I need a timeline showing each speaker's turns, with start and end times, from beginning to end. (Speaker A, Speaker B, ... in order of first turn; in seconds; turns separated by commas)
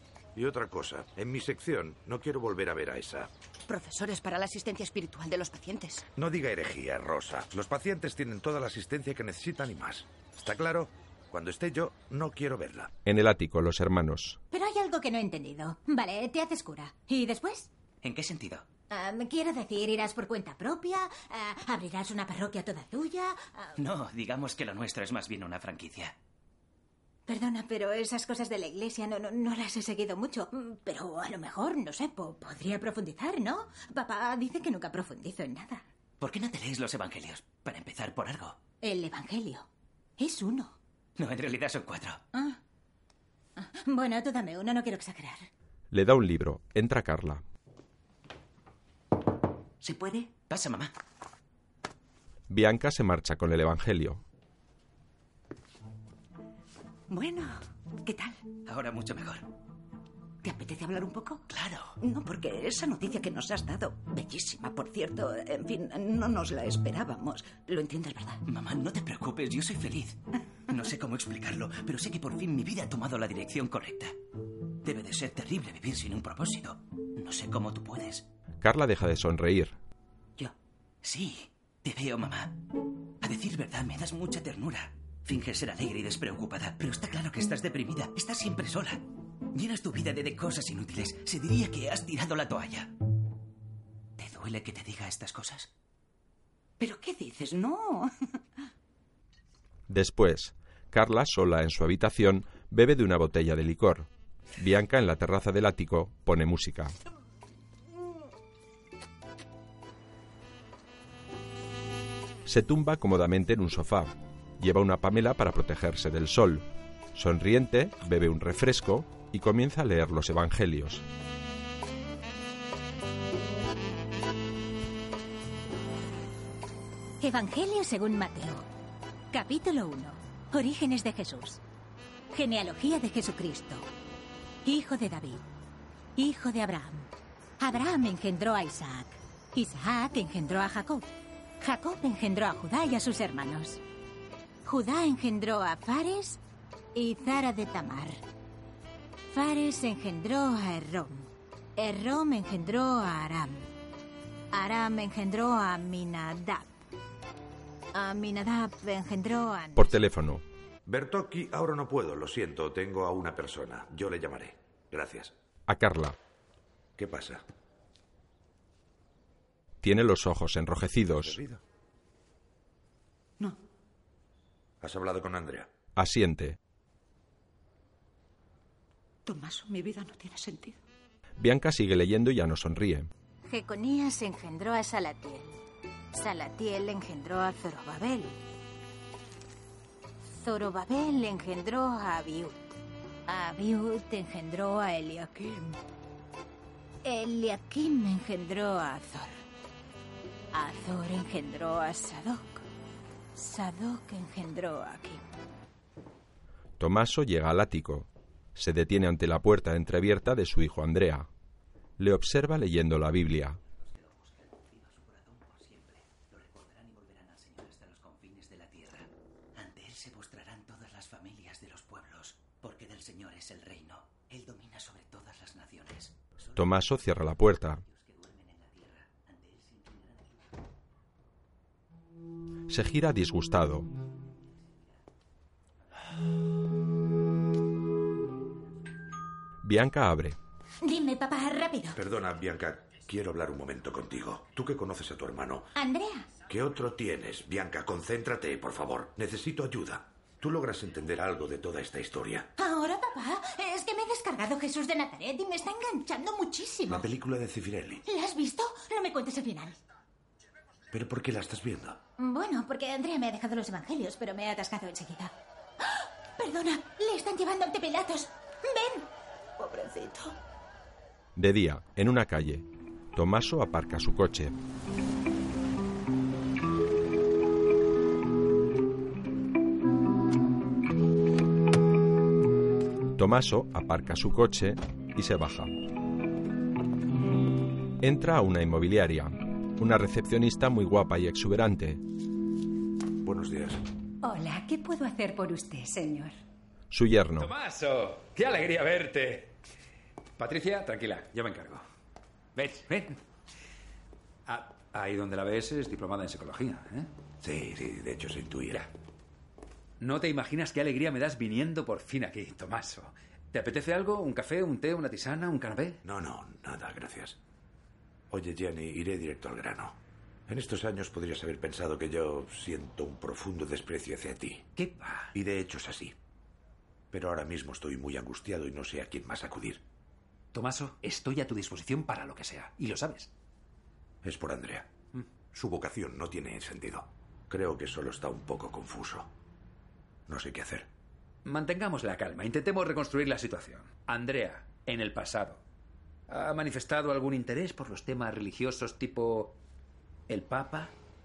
Speaker A: 0.3-3.3, Speaker B: 3.7-6.0, Speaker A: 6.2-12.9, Speaker C: 13.0-14.4, Speaker D: 14.5-17.7, Speaker E: 18.0-18.6, Speaker D: 18.9-23.8, Speaker E: 23.8-26.1, Speaker D: 27.3-35.8, Speaker E: 36.2-38.6, Speaker D: 38.8-39.6, Speaker D: 40.2-40.7, Speaker E: 41.2-42.2, Speaker D: 42.3-42.6, Speaker D: 43.6-45.5, Speaker C: 45.9-47.4, Speaker F: 49.8-50.3, Speaker E: 50.5-50.9, Speaker C: 52.5-54.2, Speaker F: 57.1-58.4, Speaker E: 58.6-59.5, Speaker F: 60.4-61.4, Speaker E: 61.5-61.9, Speaker F: 62.0-68.4, Speaker E: 68.5-74.1, Speaker E: 74.8-78.2, Speaker C: 78.6-79.8, Speaker E: 81.0-82.6, Speaker E: 83.2-92.9, Speaker E: 94.2-95.7, Speaker F: 96.8-98.1, Speaker C: 99.9-107.0, Speaker C: 112.5-121.0, Speaker D: 127.2-128.7, Speaker D: 129.3-131.6, Speaker D: 132.3-133.9, Speaker D: 134.6-135.4, Speaker D: 136.2-143.8, Speaker D: 144.6-146.4, Speaker D: 146.9-148.2, Speaker D: 149.3-153.7, Speaker D: 154.5-156.7, Speaker D: 157.9-159.9, Speaker C: 159.8-160.4, Speaker A: 160.8-165.3, Speaker C: 165.7-166.2, Speaker A: 167.0-167.4, Speaker C: 169.8-171.4, Speaker A: 171.1-171.6, Speaker A: 174.8-175.7, Speaker C: 175.9-176.6, Speaker F: 179.2-180.8, Speaker C: 181.4-183.1, Speaker D: 183.4-185.6, Speaker D: 186.1-188.4, Speaker D: 190.4-195.8, Speaker D: 197.0-199.4, Speaker D: 200.5-202.6, Speaker D: 203.3-205.2, Speaker C: 206.8-211.3, Speaker C: 212.0-213.6, Speaker E: 214.0-226.2, Speaker C: 226.5-227.8, Speaker E: 227.8-230.5, Speaker C: 232.7-233.9, Speaker C: 239.6-240.4, Speaker D: 240.8-242.0, Speaker A: 241.9-245.7, Speaker D: 245.7-246.3, Speaker A: 246.5-252.5, Speaker D: 252.6-257.1, Speaker A: 256.9-258.0, Speaker D: 258.0-259.8, Speaker A: 260.9-262.0, Speaker D: 262.2-269.1, Speaker F: 269.6-270.3, Speaker C: 271.4-274.5, Speaker C: 283.1-285.7, Speaker C: 288.0-292.0, Speaker A: 293.2-293.8, Speaker G: 294.2-296.3, Speaker C: 296.9-297.5, Speaker H: 297.4-299.6, Speaker H: 300.4-301.8, Speaker H: 302.6-303.2, Speaker H: 304.4-307.1, Speaker A: 307.4-308.8, Speaker H: 310.0-316.0, Speaker A: 316.0-317.4, Speaker A: 318.3-320.0, Speaker A: 320.5-324.7, Speaker H: 324.8-325.3, Speaker A: 325.3-326.1, Speaker A: 327.1-329.8, Speaker H: 330.5-333.3, Speaker A: 334.2-334.9, Speaker A: 335.5-339.3, Speaker A: 340.3-340.9, Speaker H: 341.4-345.6, Speaker H: 346.3-349.6, Speaker H: 350.3-350.9